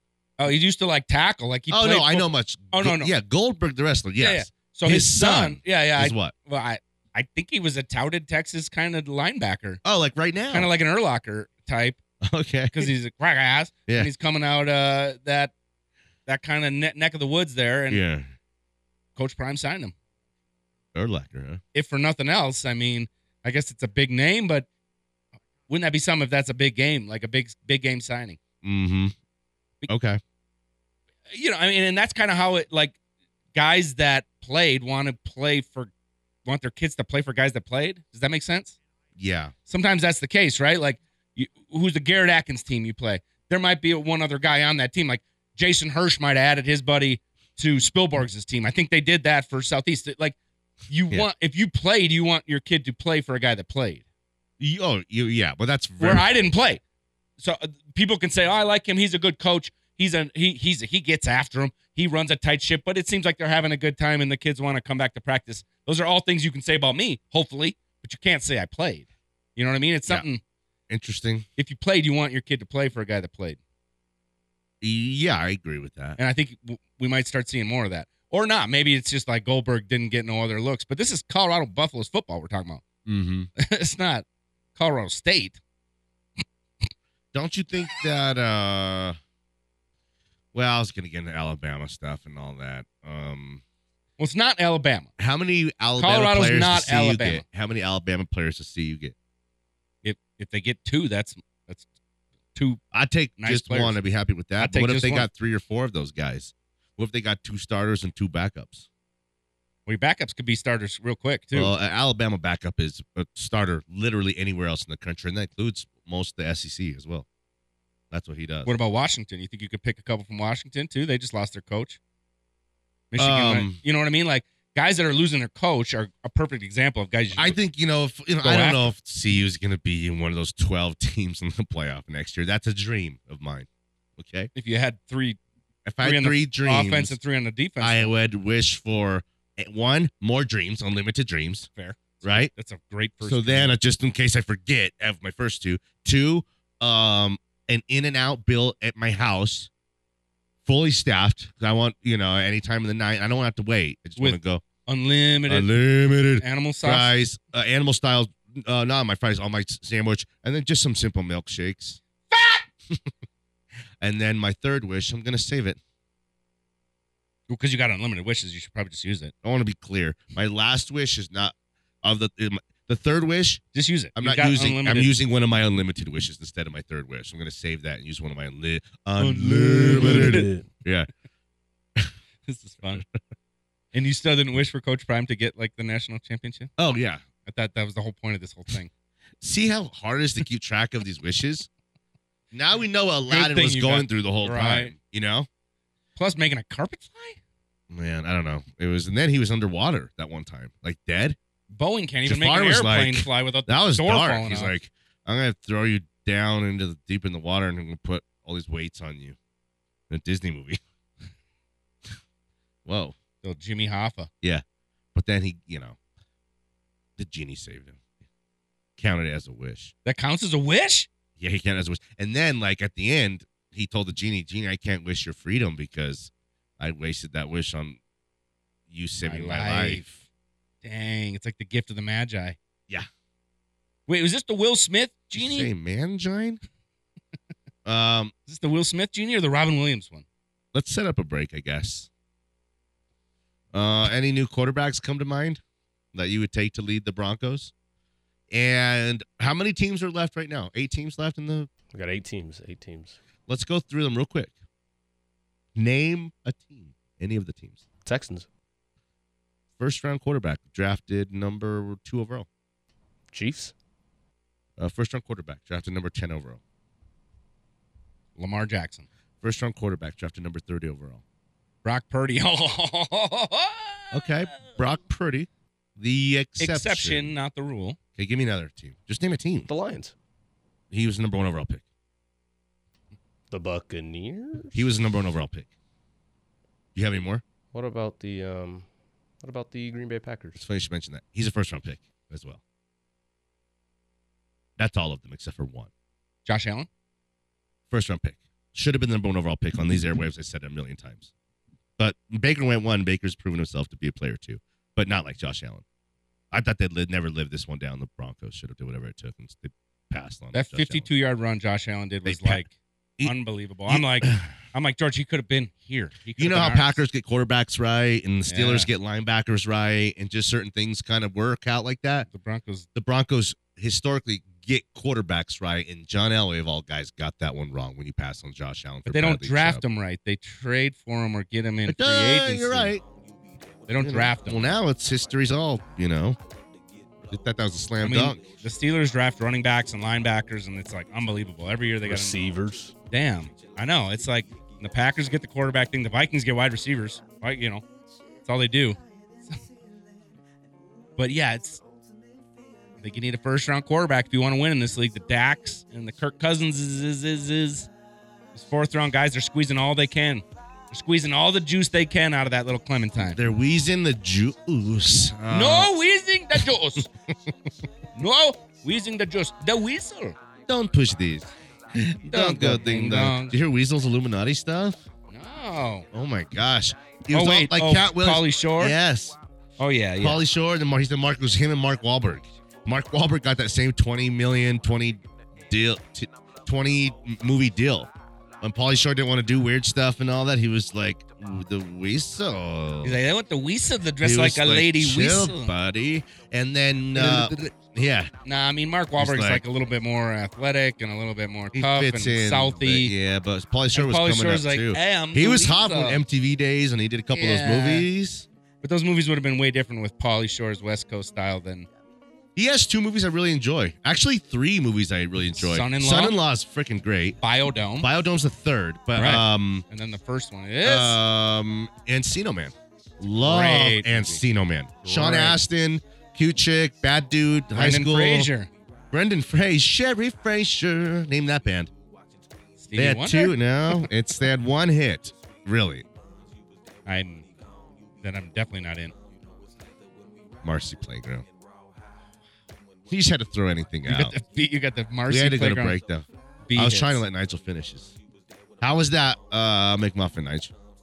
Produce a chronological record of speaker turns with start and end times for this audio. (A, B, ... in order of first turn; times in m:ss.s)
0:00.4-0:03.1 A
0:01.7-0:06.3 B
0:04.2-0:09.8 A
0:09.8-0:10.7 B
0:10.5-0:12.0 A
0:12.2-0:12.9 B
0:12.7-0:15.5 A
0:16.2-0:18.0 A
0:17.9-0:18.3 B
0:19.2-0:19.9 A
0:20.9-0:21.6 B
0:21.7-0:24.7 A
0:25.7-0:28.4 A
0:28.6-0:29.1 B
0:29.9-0:30.2 B
0:31.3-0:33.0 A
0:33.5-0:35.9 A
0:36.4-0:38.8 A
0:39.2-0:39.5 B
0:39.7-0:50.4 A
0:50.9-0:54.0 A
0:54.6-0:56.3 B
0:56.0-0:56.8 A
0:57.4-1:10.4 A
1:10.9-1:11.4 B
1:11.6-1:13.6 A
1:14.8-1:16.2 B
1:16.2-1:22.8 A
1:23.0-1:23.5 B
1:23.6-1:24.2 A
1:24.8-1:25.6 A
1:27.3-1:29.2 B
1:30.5-1:33.6 B
1:34.2-1:35.1 A
1:35.2-1:39.1 B
1:36.0-1:37.4 A
1:40.0-1:41.8 A
1:42.5-1:42.8 A
1:42.9-1:48.9 B
1:43.4-1:44.0 A
1:44.6-1:45.3 A
1:49.8-1:51.7 A
1:51.5-1:57.2 B
1:58.1-1:58.7 B
1:58.6-2:02.0 A
2:03.1-2:07.6 A
2:03.2-2:03.8 B
2:07.3-2:14.5 B
2:08.4-2:08.9 A
2:14.5-2:15.4 A
2:15.8-2:17.2 B
2:16.0-2:18.1 A
2:17.8-2:21.7 B
2:21.8-2:23.7 A
2:22.2-2:22.5 B
2:23.2-2:29.7 B
2:30.6-2:34.6 B
2:34.2-2:35.7 A
2:35.5-2:42.0 B
2:36.4-2:37.1 A
2:42.3-2:42.7 A
2:44.0-2:45.8 B
2:47.5-2:49.3 A
2:49.4-2:53.6 B
2:53.7-2:55.1 A
2:54.2-3:01.1 B
2:59.2-3:00.5 A
2:59.7-3:00.7 C
3:02.5-3:03.0 A
3:03.9-3:06.7 A
3:06.8-3:07.2 B
3:07.4-3:08.9 A
3:09.4-3:11.7 B
3:12.5-3:15.5 B
3:13.3-3:14.9 A
3:16.2-3:17.4 A
3:17.9-3:21.4 B
3:21.7-3:24.7 A
3:22.2-3:29.4 B
3:30.1-3:30.8 B
3:32.8-3:33.2 B
3:33.4-3:34.3 A
3:35.1-3:36.0 B
3:37.2-3:38.0 B
3:39.0-3:39.9 B
3:40.0-3:41.1 A
3:41.4-3:48.0 B
3:48.9-3:50.2 B
3:49.2-3:50.0 A
3:50.8-3:52.6 A
3:54.1-3:55.7 A
3:55.3-3:56.6 B
3:57.8-3:58.3 B
3:58.5-4:00.2 A
4:00.7-4:02.1 B
4:03.7-4:05.6 B
4:06.1-4:07.7 B
4:08.5-4:11.7 B
4:11.9-4:13.2 C
4:13.5-4:14.5 B
4:15.7-4:17.8 B
4:18.0-4:18.5 C
4:19.8-4:22.5 B
4:23.3-4:23.7 C
4:24.8-4:26.6 B
4:28.4-4:29.0 A
4:29.4-4:31.2 B
4:31.8-4:34.7 A
4:34.1-4:37.3 B
4:36.6-4:38.0 A
4:38.2-4:39.7 B
4:39.7-4:40.1 C
4:40.9-4:41.8 B
4:43.5-4:44.8 C
4:44.7-4:45.7 B
4:46.9-4:47.4 B
4:47.7-4:48.9 C
4:49.4-4:50.6 C
4:50.6-4:52.6 B
4:54.8-4:55.9 B
4:56.4-4:56.9 A
4:57.9-5:01.3 B
5:02.0-5:05.8 B
5:06.5-5:11.1 B
5:10.5-5:12.7 A
5:12.2-5:12.6 B
5:13.2-5:17.0 A
5:13.9-5:14.5 B
5:16.4-5:22.3 B
5:18.4-5:18.9 A
5:22.3-5:22.9 A
5:22.9-5:29.8 B
5:29.1-5:32.9 A
5:31.8-5:33.0 B
5:33.9-5:34.8 A
5:34.0-5:36.4 B
5:37.3-5:38.4 B
5:38.0-5:42.5 A
5:42.0-5:42.9 C
5:43.1-5:47.8 A
5:48.4-5:49.0 A
5:51.2-5:51.8 A
5:53.0-5:57.9 A
5:58.5-6:03.4 A
6:03.2-6:05.9 B
6:05.5-6:07.1 A
6:08.2-6:10.4 A
6:10.7-6:15.0 B
6:12.3-6:13.6 A
6:15.3-6:16.0 A
6:16.1-6:19.4 B
6:17.3-6:19.0 A
6:19.8-6:20.4 A
6:20.2-6:33.2 B
6:33.0-6:35.7 A
6:34.2-6:38.3 B
6:37.1-6:37.5 A
6:38.4-6:43.1 A
6:39.2-6:39.6 B
6:41.7-6:48.5 B
6:43.9-6:46.2 A
6:47.3-6:48.1 A
6:48.8-6:51.9 A
6:52.6-6:57.4 B
6:55.6-6:56.4 A
6:57.4-6:58.1 A
6:58.0-6:59.8 B
6:59.2-7:01.2 A
7:00.8-7:08.5 B
7:03.4-7:04.4 A
7:05.0-7:05.6 A
7:07.7-7:08.7 A
7:09.1-7:11.9 B
7:12.8-7:14.0 A
7:12.9-7:16.0 B
7:17.0-7:17.4 A
7:18.2-7:19.1 A
7:20.6-7:21.4 B
7:23.1-7:24.4 B
7:24.0-7:26.0 A
7:25.2-7:28.1 B
7:26.6-7:27.2 A
7:28.8-7:30.7 B